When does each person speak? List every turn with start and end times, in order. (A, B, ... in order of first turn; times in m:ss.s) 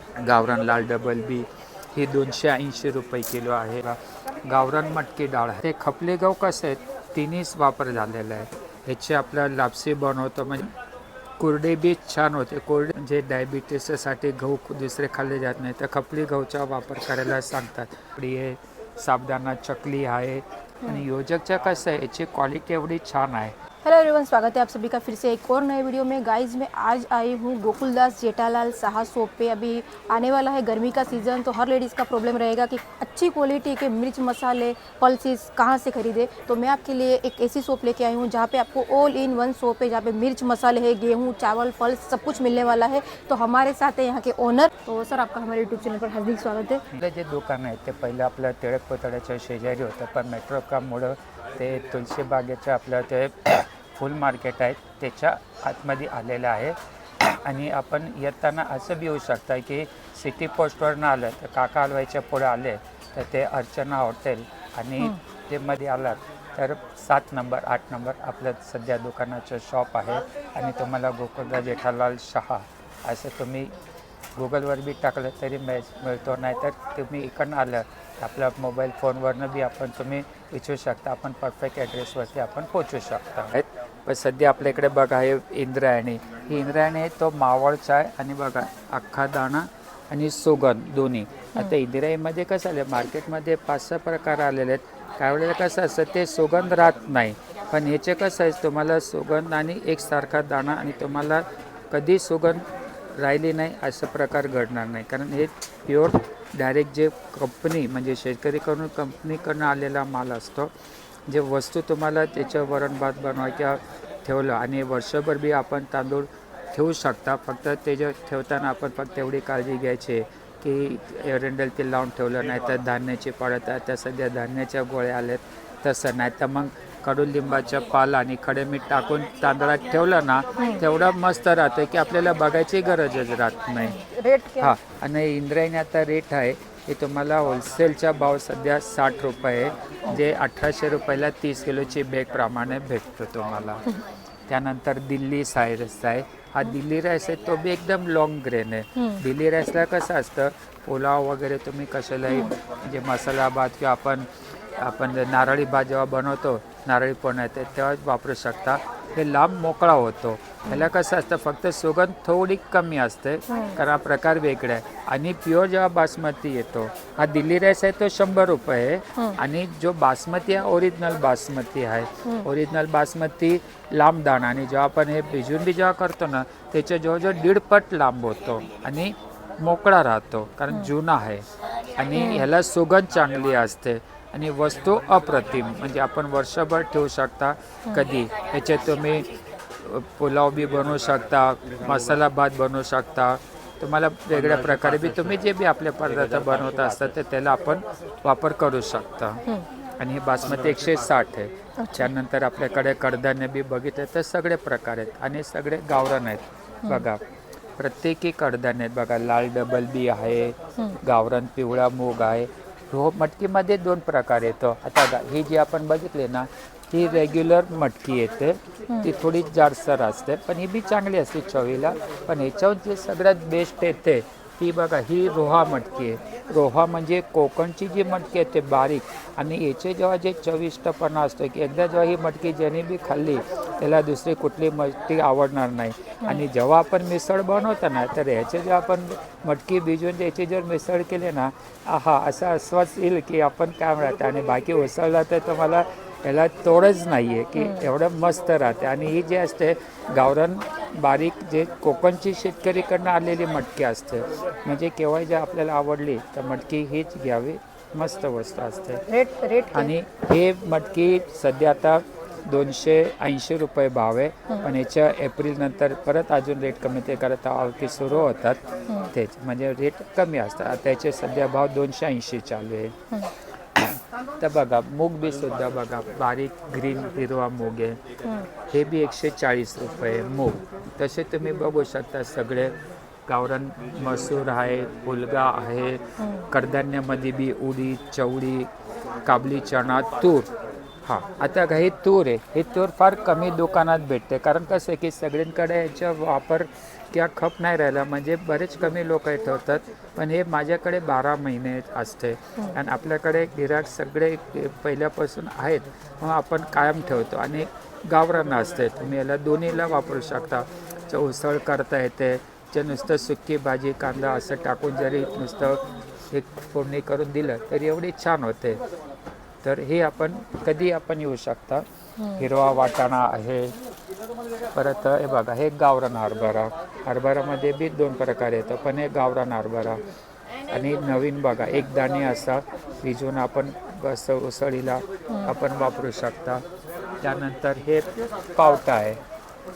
0:00.1-0:10.8 A
0:11.4-0:23.5 A
0:23.8-0:46.8 B
0:46.9-1:13.8 A
1:14.4-1:50.7 A
1:51.3-2:14.0 A
2:10.6-2:10.8 B
2:13.8-2:14.7 B
2:14.6-2:23.8 A
2:24.5-3:01.4 A
2:29.0-2:29.2 B
2:43.5-2:43.8 B
3:02.0-3:09.2 A
3:02.1-3:02.5 B
3:09.8-3:19.4 A
3:20.0-3:27.2 A
3:21.8-3:22.1 B
3:27.8-4:19.0 A
4:07.6-4:07.9 B
4:19.1-4:19.9 B
4:19.7-4:33.0 A
4:33.8-4:38.0 A
4:38.2-4:38.5 B
4:38.7-4:42.8 A
4:43.3-4:48.7 A
4:46.2-4:46.5 B
4:49.2-4:50.5 A
4:51.1-5:18.8 A
5:19.6-5:23.8 A
5:22.2-5:22.5 B
5:24.8-5:30.0 A
5:30.7-5:36.6 A
5:35.3-5:35.6 B
5:37.2-5:39.2 A